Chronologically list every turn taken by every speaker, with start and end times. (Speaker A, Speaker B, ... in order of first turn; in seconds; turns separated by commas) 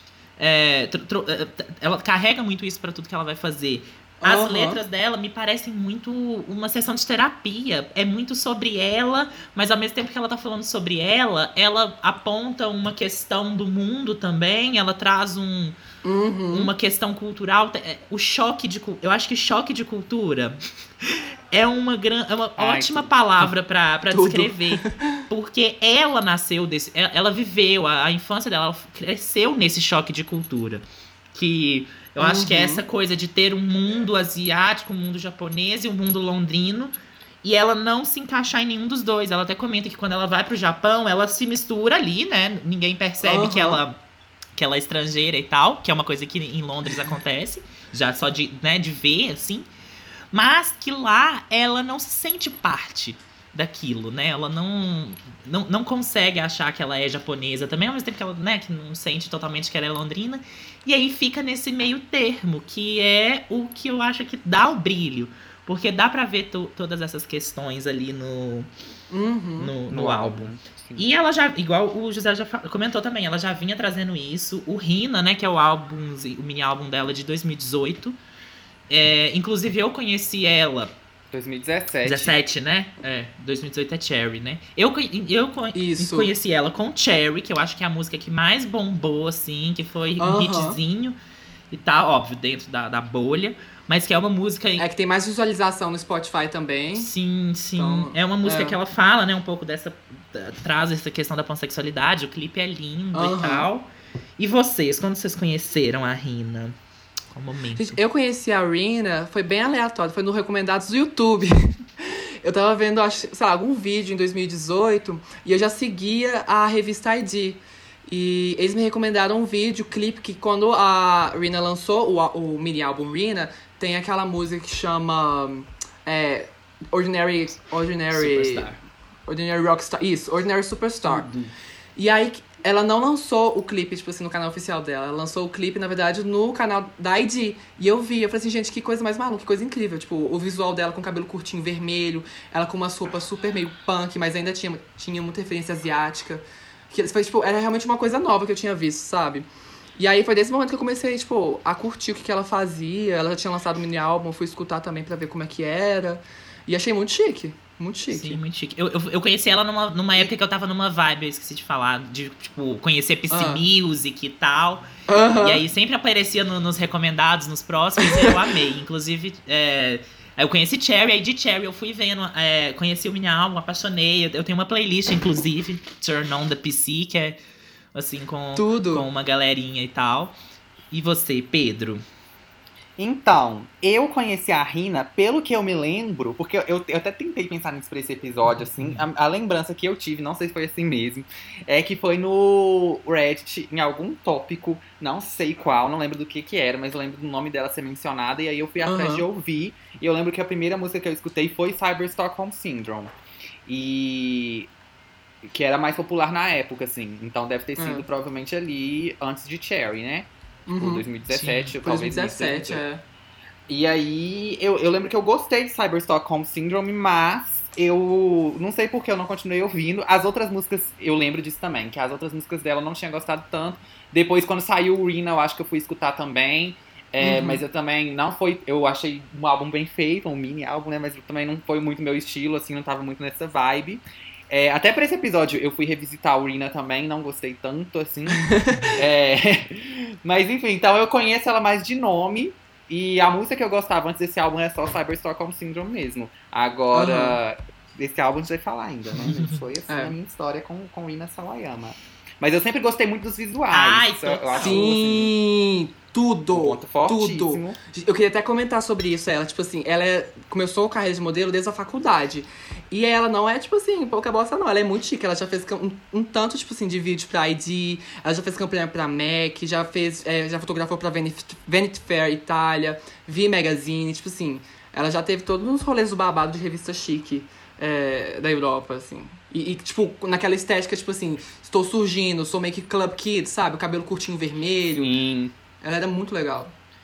Speaker A: 0.4-15.8, Speaker B: 4.2-4.8, Speaker B: 16.0-16.7, Speaker A: 16.5-44.0, Speaker C: 22.6-23.1, Speaker B: 24.1-25.2, Speaker B: 32.2-32.8, Speaker B: 43.2-43.8, Speaker A: 44.5-49.7, Speaker A: 50.3-68.7, Speaker B: 69.1-69.7, Speaker A: 69.6-78.2, Speaker C: 69.9-71.0, Speaker A: 78.9-80.9, Speaker C: 81.3-82.4, Speaker A: 82.0-91.2, Speaker B: 85.7-86.3, Speaker B: 90.2-90.8, Speaker A: 91.7-94.8, Speaker B: 94.8-97.1, Speaker A: 97.0-106.8, Speaker B: 97.8-98.8, Speaker B: 103.1-103.7, Speaker A: 107.3-108.0, Speaker B: 107.8-128.7, Speaker A: 128.1-128.8, Speaker B: 129.3-131.3, Speaker A: 131.0-131.5, Speaker B: 132.0-149.5, Speaker B: 150.0-158.4, Speaker A: 158.1-177.4, Speaker B: 163.3-163.6, Speaker B: 165.1-165.6, Speaker A: 177.9-180.3, Speaker B: 178.6-179.1, Speaker A: 180.9-182.0, Speaker C: 183.0-203.1, Speaker B: 198.8-199.2, Speaker C: 203.7-204.7, Speaker C: 205.4-212.8, Speaker B: 207.8-208.1, Speaker B: 210.7-211.1, Speaker A: 211.3-211.7, Speaker B: 211.8-213.0, Speaker C: 213.7-255.3, Speaker B: 227.2-227.6, Speaker B: 238.4-239.0, Speaker B: 246.9-247.4, Speaker A: 249.2-249.6, Speaker B: 249.9-250.1, Speaker A: 253.7-254.9, Speaker B: 254.6-285.1, Speaker C: 256.5-257.8, Speaker C: 284.9-285.5, Speaker B: 285.8-286.7